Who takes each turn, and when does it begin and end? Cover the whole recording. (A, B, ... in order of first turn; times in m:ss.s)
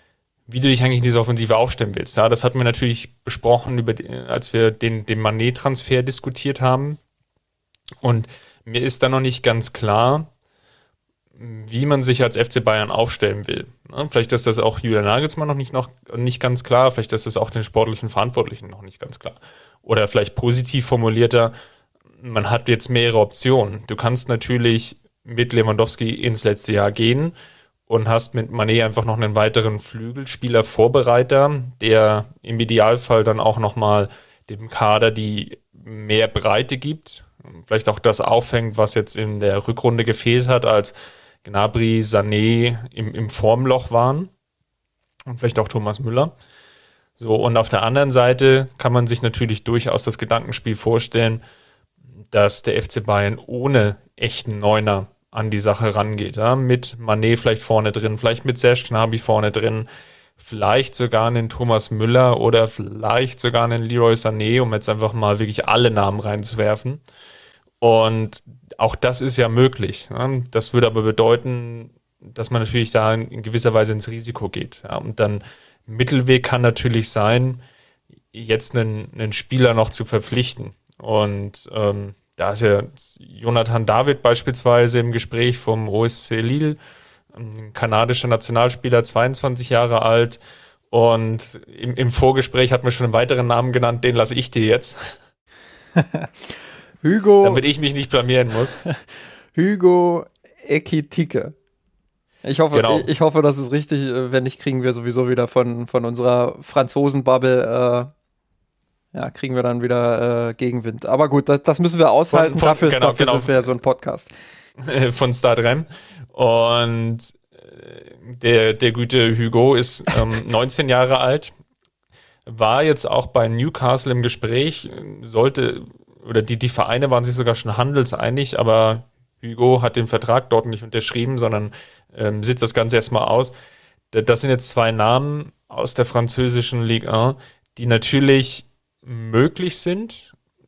0:00.5-0:07.0 A
0:08.0-0:10.3 A
0:11.4-0:21.5 A
0:22.2-0:27.3 A
0:27.9-0:44.3 A
0:45.3-0:46.3 A
0:47.2-0:51.4 A
0:52.3-0:59.9 A
1:00.4-1:07.0 A
1:07.8-1:17.6 A
1:18.3-1:26.8 A
1:27.3-1:30.4 A
1:30.9-1:35.2 A
1:36.0-1:36.3 B
1:37.0-1:37.6 B
1:37.4-1:38.8 A
1:39.5-1:41.5 B
1:42.4-1:48.1 B
1:42.7-1:43.1 A
1:49.1-1:54.3 B
1:52.3-1:53.6 A
1:54.8-2:01.5 A
2:02.4-2:13.5 A
2:14.1-2:20.3 A